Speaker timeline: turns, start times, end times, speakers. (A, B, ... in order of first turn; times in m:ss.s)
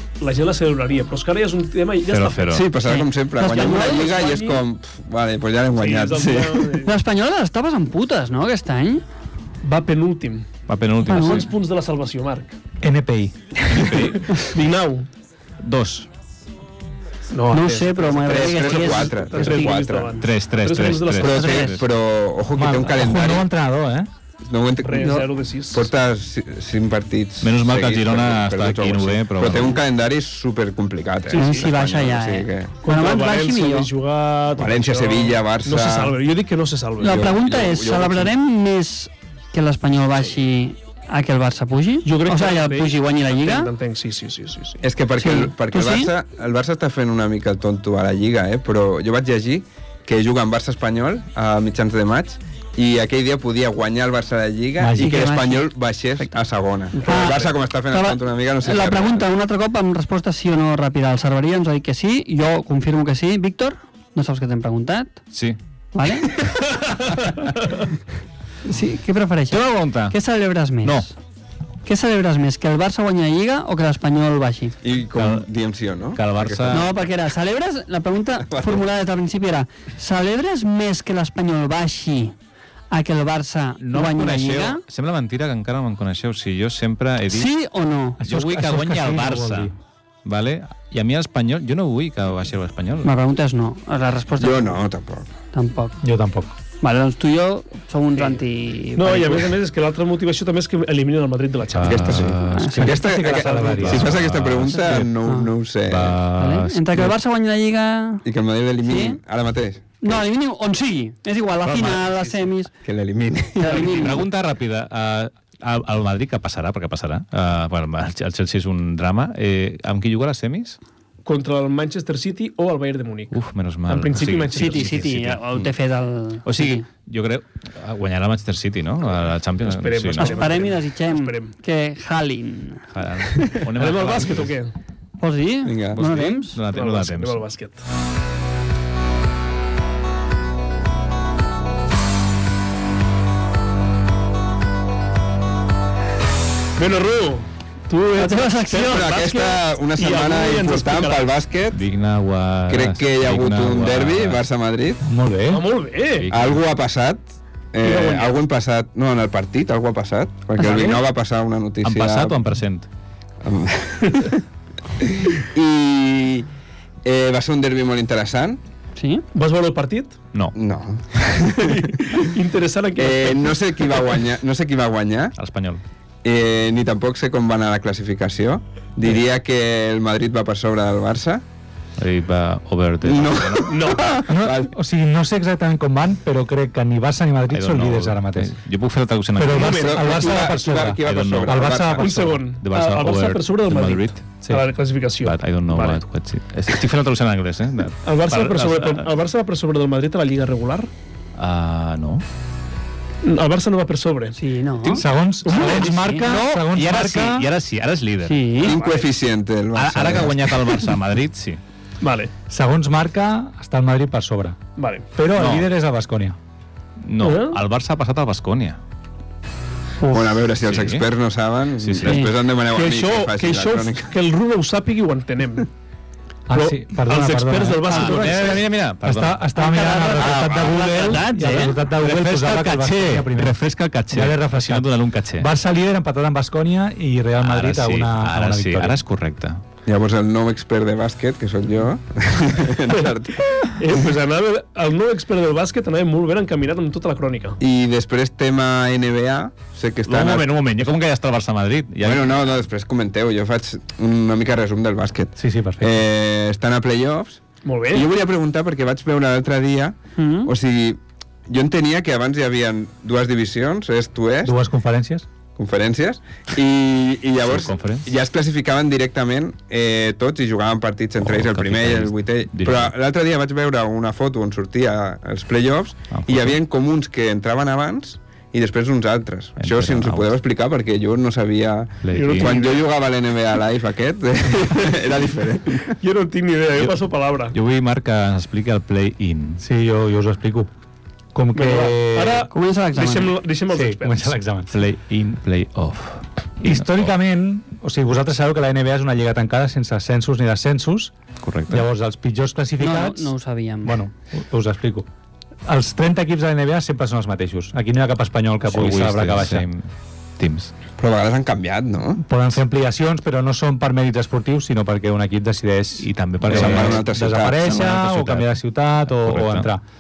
0:00.2-0:02.6 A
0:02.1-0:02.7 B
0:02.5-0:06.8 C
0:02.8-0:04.1 D
0:03.4-0:04.6 A
0:05.8-0:07.0 A
0:06.8-0:09.0 D
0:09.6-0:12.6 A
0:10.7-0:11.5 B
0:11.0-0:11.5 D
0:12.8-0:13.8 E
0:13.7-0:14.4 B
0:13.9-0:15.1 A
0:15.6-0:16.1 B
0:17.3-0:21.5 A
0:17.5-0:19.8 D
0:18.2-0:20.2 C
0:20.2-0:21.9 B
0:21.2-0:23.5 C
0:21.3-0:21.8 D
0:22.6-0:24.1 E
0:24.4-0:32.8 C
0:24.8-0:25.9 A
0:25.0-0:25.3 D
0:27.4-0:29.8 B
0:31.3-0:31.7 A
0:31.3-0:33.9 D
0:32.8-0:37.3 A
0:34.5-0:36.2 C
0:37.0-0:38.3 C
0:37.0-0:43.7 D
0:42.0-0:44.8 A
0:44.8-0:59.3 C
0:45.2-0:46.1 D
0:54.8-0:55.2 E
0:55.0-0:56.4 D
0:57.0-0:57.5 A
0:57.0-1:05.2 D
1:05.3-1:05.6 B
1:05.9-1:06.6 D
1:06.6-1:07.8 A
1:08.7-1:11.1 D
1:09.5-1:10.2 B
1:10.8-1:11.1 B
1:11.8-1:14.8 D
1:14.8-1:16.9 C
1:15.2-1:15.5 B
1:16.2-1:16.9 B
1:16.7-1:22.4 D
1:18.4-1:18.9 C
1:22.9-1:24.8 D
1:23.8-1:27.5 B
1:27.3-1:28.2 D
1:28.2-1:29.7 E
1:28.2-1:29.7 B
1:30.2-1:33.1 B
1:33.0-1:34.8 D
1:34.4-1:35.3 C
1:35.5-1:36.0 D
1:36.0-1:36.6 E
1:36.8-1:39.6 D
1:39.0-1:42.2 A
1:41.7-1:43.0 B
1:41.8-1:46.2 C
1:42.5-1:43.0 D
1:42.8-1:44.2 E
1:43.2-1:44.1 A
1:43.8-1:45.1 B
1:44.6-1:45.5 D
1:45.9-1:47.2 B
1:46.4-1:48.2 D
1:48.2-1:50.2 C
1:48.8-1:49.2 D
1:50.0-1:52.7 D
1:51.6-1:52.4 B
1:52.8-1:53.9 C
1:53.6-1:54.2 D
1:53.6-1:54.1 A
1:53.8-2:00.8 B
2:01.2-2:05.1 A
2:03.3-2:05.8 B
2:04.5-2:06.9 D
2:06.4-2:10.6 B
2:09.6-2:11.5 A
2:10.2-2:12.9 D
2:12.9-2:14.5 B
2:13.4-2:14.8 A
2:15.2-2:16.6 D
2:15.6-2:16.0 C
2:16.0-2:17.4 B
2:16.7-2:17.9 A
2:26.8-2:31.3 A
2:28.2-2:29.6 D
2:28.8-2:31.8 C
2:31.7-2:34.4 B
2:32.7-2:35.0 C
2:35.1-2:35.6 E
2:35.5-2:36.3 A
2:36.1-2:36.6 B
2:36.3-2:42.4 C
2:37.8-2:38.4 A
2:40.6-2:41.0 D
2:40.7-2:41.0 A
2:41.8-2:42.9 B
2:43.4-2:44.4 C
2:45.0-2:46.5 C
2:47.0-2:48.6 C
2:49.0-2:49.2 D
2:49.3-2:50.2 A
2:50.6-2:52.3 C
2:51.4-2:54.2 A
2:53.0-2:55.4 C
2:55.4-2:55.8 B
2:56.2-3:01.4 C
3:02.0-3:03.8 B
3:03.0-3:04.8 C
3:03.7-3:04.0 A
3:04.3-3:08.5 E
3:07.5-3:09.8 B
3:09.4-3:12.4 E
3:09.5-3:10.5 A
3:09.6-3:12.2 C
3:11.0-3:11.9 B
3:12.0-3:16.0 A
3:12.5-3:14.3 B
3:15.2-3:19.1 B
3:18.0-3:20.9 A
3:21.4-3:22.2 B
3:23.2-3:24.4 A
3:24.4-3:26.5 D
3:24.9-3:27.5 E
3:25.6-3:25.9 A
3:25.6-3:28.6 B
3:28.2-3:28.8 D
3:28.6-3:29.1 A
3:28.6-3:30.6 C
3:29.8-3:31.6 B
3:32.0-3:32.3 A
3:32.5-3:34.6 E
3:34.8-3:35.1 A
3:35.2-3:36.4 E
3:35.3-3:35.7 B
3:37.0-3:38.8 B
3:37.2-3:37.6 A
3:40.1-3:40.3 E
3:40.1-3:44.2 C
3:40.6-3:41.0 B
3:41.8-3:42.3 B
3:42.0-3:42.3 D
3:42.7-3:45.7 A
3:46.5-3:48.4 E
3:46.5-3:48.7 A
3:47.8-3:49.5 B
3:49.0-3:53.6 E
3:49.6-3:51.8 D
3:50.2-3:51.1 C
3:52.0-3:55.5 B
3:54.1-3:59.0 E
3:57.4-3:59.6 B
3:59.9-4:03.7 C
4:03.0-4:07.6 A
4:07.6-4:10.5 C
4:10.1-4:12.4 B
4:12.0-4:24.6 C
4:15.4-4:16.0 E
4:17.6-4:18.1 A
4:20.2-4:20.5 D
4:24.4-4:25.3 E
4:25.6-4:46.0 C
4:27.4-4:28.1 B
4:31.2-4:32.9 B
4:36.1-4:36.6 B
4:39.6-4:40.3 B
4:42.0-4:42.6 B
4:42.1-4:42.8 A
4:45.9-4:47.6 A
4:47.5-4:49.6 B
4:49.6-4:50.7 E
4:51.3-4:52.5 E
4:51.5-4:54.4 A
4:52.5-4:53.4 D
4:53.7-4:54.8 E
4:54.7-4:57.1 B
4:56.6-5:01.2 E
5:01.4-5:01.9 B
5:01.7-5:03.3 E
5:02.8-5:04.0 D
5:03.8-5:05.1 E
5:05.7-5:09.7 E
5:08.6-5:10.7 B
5:11.0-5:12.2 C
5:12.2-5:19.8 E
5:16.0-5:17.1 B
5:16.4-5:18.0 C
5:17.6-5:19.7 B